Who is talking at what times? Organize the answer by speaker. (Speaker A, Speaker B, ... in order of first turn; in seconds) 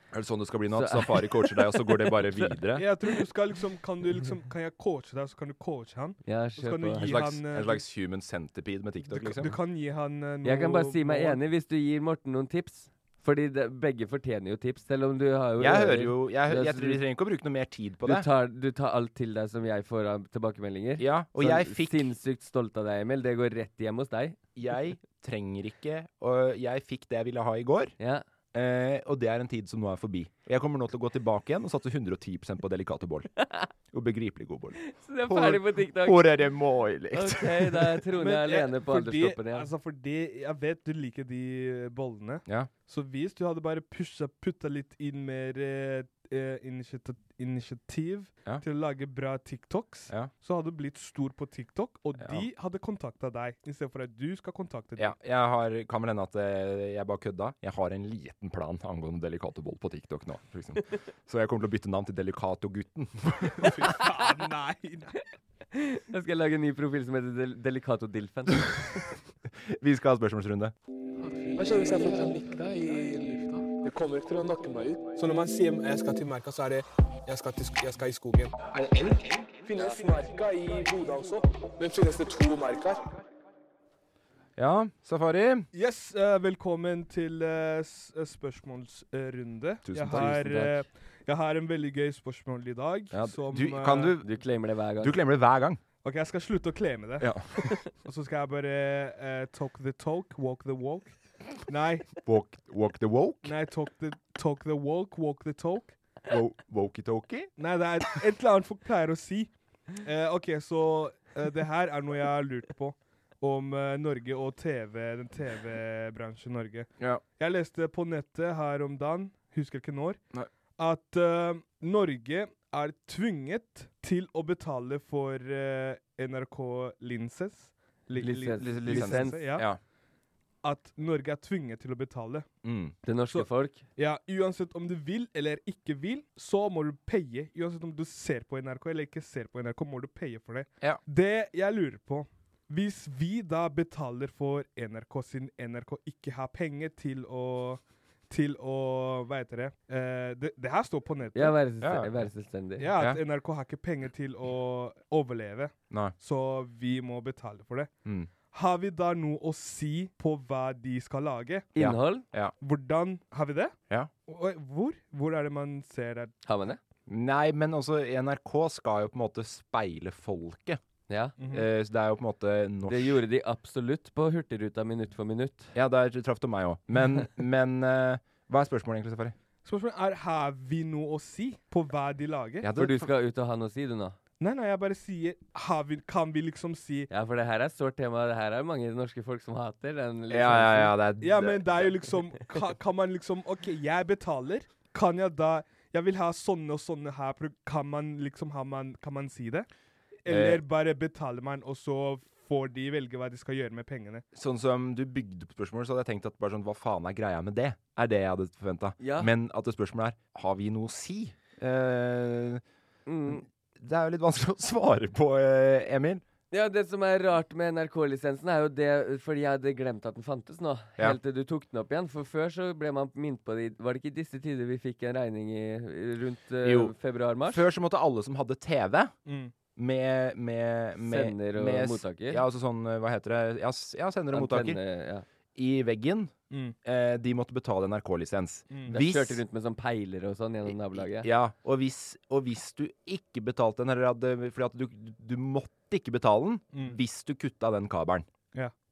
Speaker A: 0.1-2.9, 7.0-9.6, 15.6-18.3, 21.0-22.1, 24.6-27.9, 28.5-33.3, 33.9-38.0, 52.2-52.4, 55.0-63.9, 69.6-70.7, 84.6-85.7, 89.9-90.4, 93.1-94.3, 95.0-95.8, 97.2-97.7, 102.2-103.5, 106.3-107.5, 128.6-129.8, 132.6-132.9, 151.8-152.3, 161.8-162.5, 167.1-170.8, 171.5-173.2, 175.7-179.3, 182.6-183.1, 190.3-191.9, 200.3-200.6, 204.3-212.6, 213.3-216.2, 226.6-226.9, 227.5-229.1, 229.8-234.8, 235.6-236.3, 236.8-239.4, 240.9-248.3
Speaker B: 0.7-2.5, 6.3-7.2, 10.4-17.0, 18.0-24.4, 28.0-28.2, 34.8-36.3, 37.1-39.7, 65.7-69.0, 90.1-90.8, 94.2-95.2, 128.2-129.5, 133.1-133.8, 151.3-152.9, 161.8-162.3, 166.4-166.8, 171.1-171.3, 172.9-175.7, 182.8-184.2, 187.1-190.9, 209.0-209.3, 213.1-213.4, 216.5-227.6, 231.0-232.4, 234.3-235.2, 238.9-241.3
Speaker C: 2.8-7.8, 9.1-11.4, 38.2-55.1, 63.6-65.2, 85.7-94.1, 96.0-97.3, 98.0-101.1, 101.7-102.1, 103.4-106.0, 107.6-120.2, 120.8-129.7, 130.6-132.5, 133.3-151.6, 152.8-157.9, 158.5-161.7, 162.6-163.7, 164.3-166.4, 171.4-171.7, 179.6-182.7, 184.4-187.1, 191.2-199.7, 200.2-204.2, 229.3-229.5, 238.7-239.0, 246.7-247.0
Speaker D: 71.6-75.1, 75.9-83.0